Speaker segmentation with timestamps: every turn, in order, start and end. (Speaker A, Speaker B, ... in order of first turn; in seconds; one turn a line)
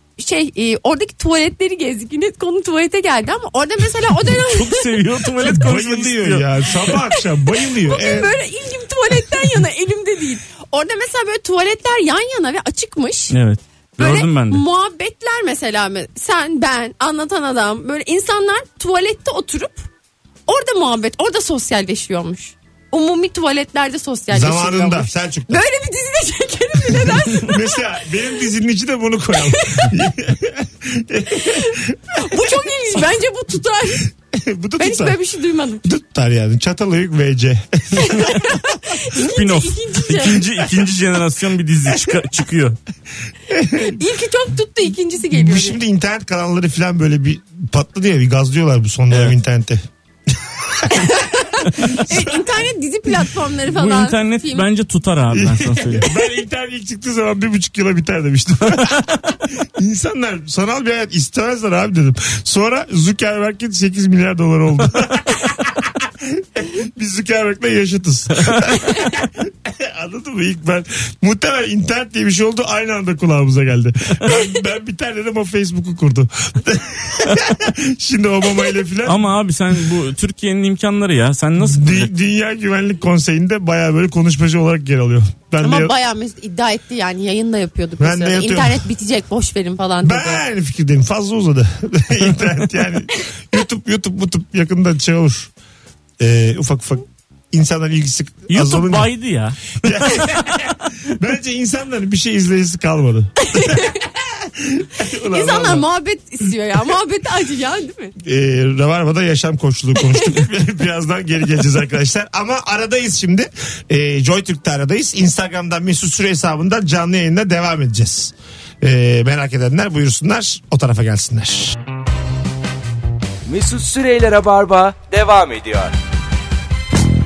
Speaker A: 0.2-5.0
Speaker B: 4.2-6.5
Speaker C: 5.5-8.3
Speaker A: 7.1-13.3
Speaker B: 13.3-14.6
Speaker A: 14.0-19.8
Speaker A: 20.5-27.8
Speaker C: 24.3-25.6
Speaker C: 26.9-32.5
Speaker A: 29.5-29.9
Speaker A: 31.3-34.1
Speaker C: 34.3-35.2
Speaker A: 34.8-36.0
Speaker C: 35.9-38.7
Speaker A: 38.0-40.4
Speaker B: 39.2-42.8
Speaker C: 42.0-42.3
Speaker C: 43.5-44.0
Speaker A: 43.7-45.8
Speaker C: 45.3-52.7
Speaker A: 50.9-54.7
Speaker B: 53.7-56.1
Speaker C: 55.3-79.3
Speaker B: 79.0-82.1
Speaker C: 81.6-85.9
Speaker A: 85.6-90.4
Speaker C: 88.0-88.9
Speaker C: 90.0-95.5
Speaker C: 96.2-99.1
Speaker B: 98.5-100.5
Speaker C: 99.8-105.9
Speaker A: 103.4-104.0
Speaker A: 105.3-108.1
Speaker C: 108.2-121.8
Speaker A: 110.1-110.4
Speaker D: 123.5-126.0